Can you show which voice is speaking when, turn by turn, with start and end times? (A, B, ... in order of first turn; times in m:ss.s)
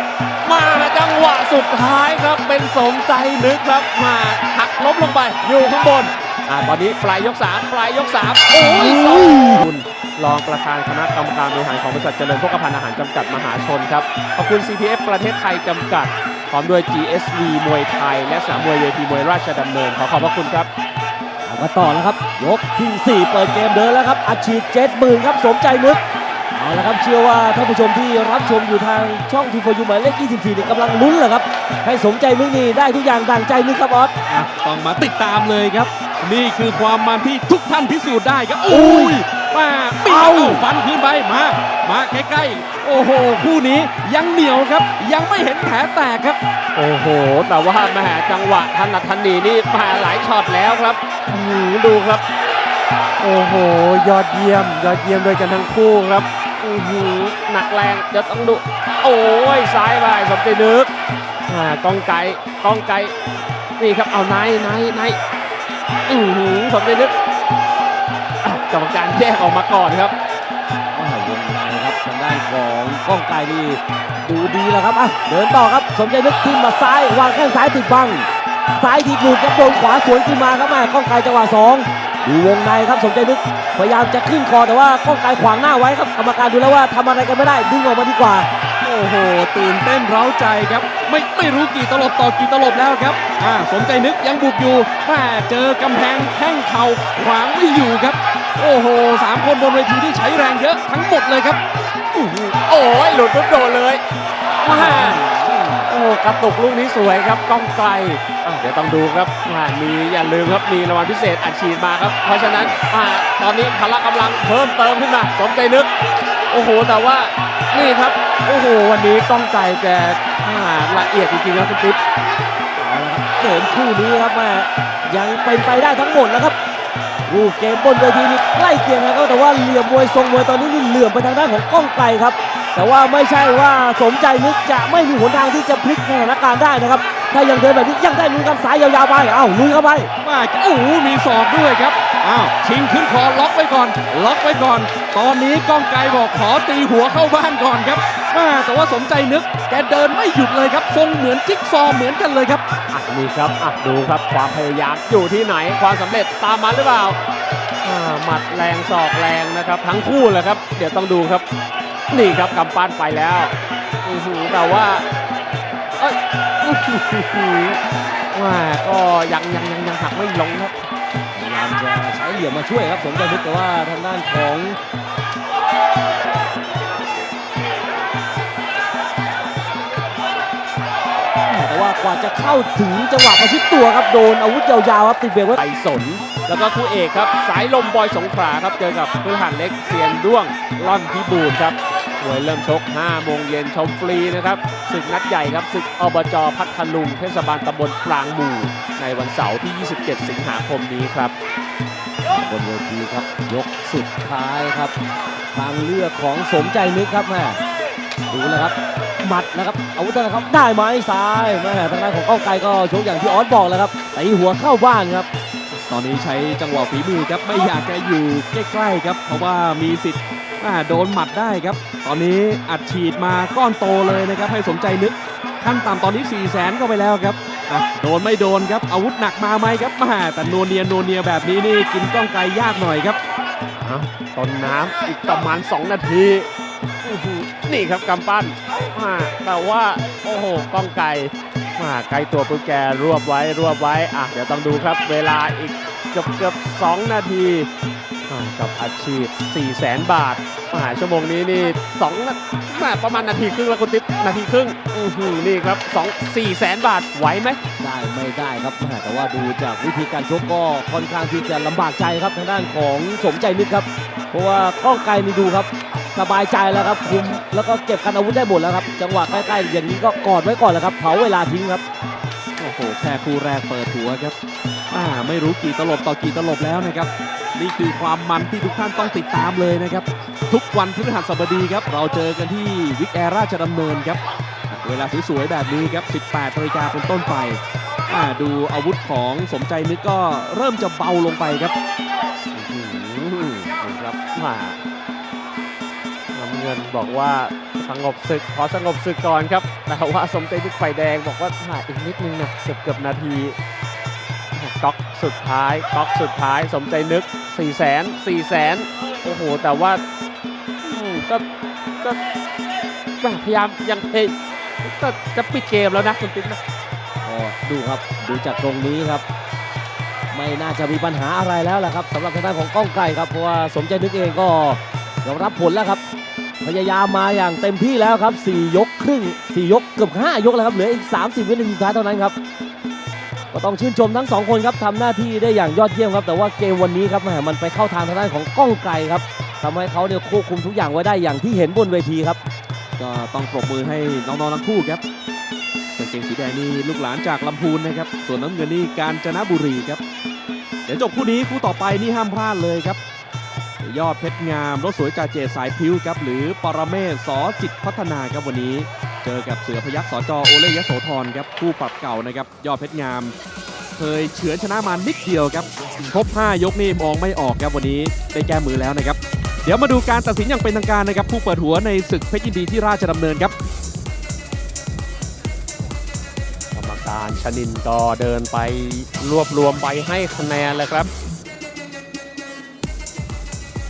0:00.4-0:20.7 A
0:21.4-0:26.0 B
0:26.5-0:34.1 B
0:34.3-0:46.4 C
0:38.7-0:39.2 B
0:40.0-0:40.6 B
0:46.7-0:52.2 A
0:53.2-1:00.9 A
1:01.5-1:03.1 A
1:03.8-1:05.2 A
1:06.0-1:07.1 A
1:08.4-1:10.1 A
1:10.9-1:28.5 B
1:28.8-1:41.6 C
1:42.1-1:44.0 A
1:44.6-1:45.2 A
1:44.7-1:45.7 B
1:45.8-1:55.9 A
1:56.5-2:02.0 A
2:02.8-2:06.6 B
2:07.3-2:20.1 B
2:20.2-2:32.6 C
2:32.9-2:37.2 A
2:37.8-2:41.4 A
2:42.1-2:43.5 A
2:44.0-2:45.0 A
2:46.0-2:47.8 A
2:48.3-2:50.9 A
2:51.3-2:54.8 B
3:01.5-3:05.6 B
3:05.5-3:21.3 A
3:22.3-3:24.9 B
3:25.5-3:27.6 B
3:28.3-3:35.3 B
3:35.9-3:53.2 C
3:53.8-3:56.5 A
3:57.0-4:07.7 A
4:08.3-4:17.6 A
4:17.8-4:31.8 B
4:32.6-4:34.3 C
4:34.9-4:44.2 C
4:44.7-4:51.7 C
4:52.5-4:54.8 A
4:56.3-5:03.6 A
5:04.5-5:10.0 A
5:10.8-5:11.4 A
5:13.2-5:16.6 A
5:17.2-5:19.2 B
5:20.3-5:26.0 B
5:26.6-5:32.3 B
5:33.5-5:42.4 B
5:43.0-5:45.0 C
5:46.0-5:50.0 C
5:50.9-5:53.0 C
5:53.8-6:03.3 C
6:04.0-6:13.5 C
6:16.7-6:21.1 A